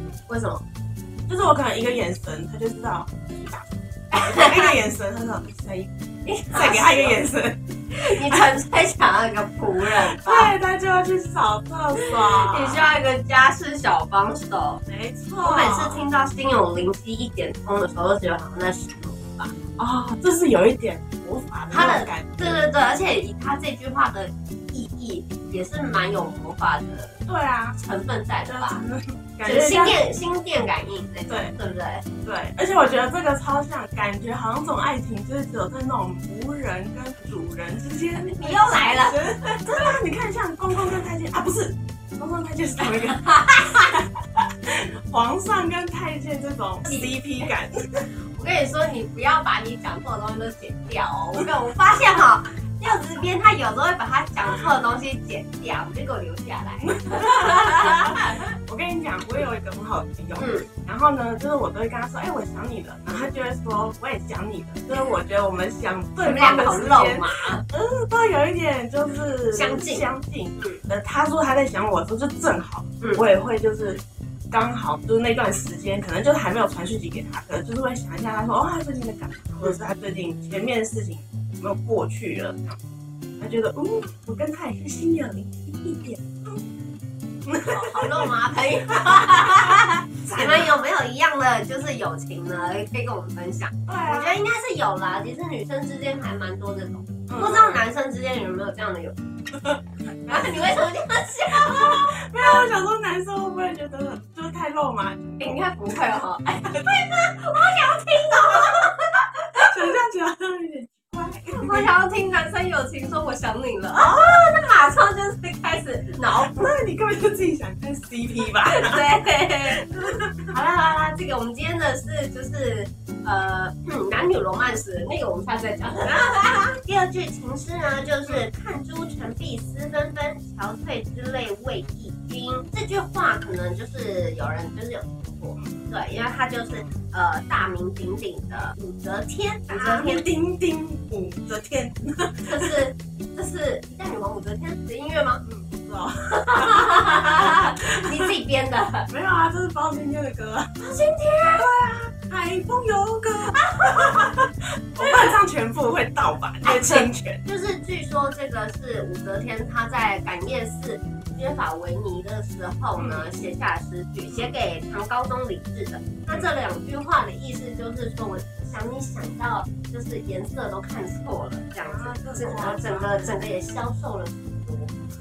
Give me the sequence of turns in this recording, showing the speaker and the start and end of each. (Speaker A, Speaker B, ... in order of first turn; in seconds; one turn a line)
Speaker A: 0.3-0.7
Speaker B: 1.3-5.9
Speaker A: 4.1-4.8
Speaker A: 6.2-7.2
Speaker B: 6.5-7.6
Speaker A: 7.9-10.6
Speaker B: 9.8-12.9
Speaker A: 11.9-14.8
Speaker B: 14.8-16.0
Speaker A: 15.4-19.6
Speaker B: 19.8-22.7
Speaker A: 21.7-27.2
Speaker B: 27.3-27.8
Speaker A: 27.8-28.8
Speaker B: 28.4-30.0
Speaker A: 29.4-32.0
Speaker B: 31.3-31.5
Speaker B: 32.2-48.0
Speaker A: 38.3-40.0
Speaker A: 42.8-44.0
Speaker A: 46.8-47.5
Speaker A: 48.2-58.4
Speaker B: 56.8-82.8
Speaker A: 60.4-60.7
Speaker A: 66.2-67.6
Speaker A: 69.5-70.8
Speaker B: 83.4-86.6
Speaker B: 87.5-88.3
Speaker A: 87.7-99.2
Speaker B: 88.9-90.8
Speaker B: 93.8-94.4
Speaker B: 97.3-97.8
Speaker B: 99.5-100.7
Speaker A: 100.3-102.7
Speaker B: 101.6-105.6
Speaker A: 105.4-110.0
Speaker B: 108.3-108.9
Speaker B: 109.6-111.9
Speaker A: 111.5-116.8
Speaker B: 114.0-114.8
Speaker B: 116.3-120.5
Speaker A: 118.6-140.3
Speaker B: 126.0-126.7
Speaker B: 139.7-142.8
Speaker A: 142.5-145.4
Speaker B: 145.4-148.3
Speaker A: 146.3-149.1
Speaker B: 149.1-150.9
Speaker A: 150.8-151.7
Speaker B: 151.4-157.4
Speaker A: 153.5-154.4
Speaker A: 155.0-155.4
Speaker A: 156.6-174.9
Speaker B: 163.0-163.4
Speaker B: 164.3-164.5
Speaker B: 171.8-173.4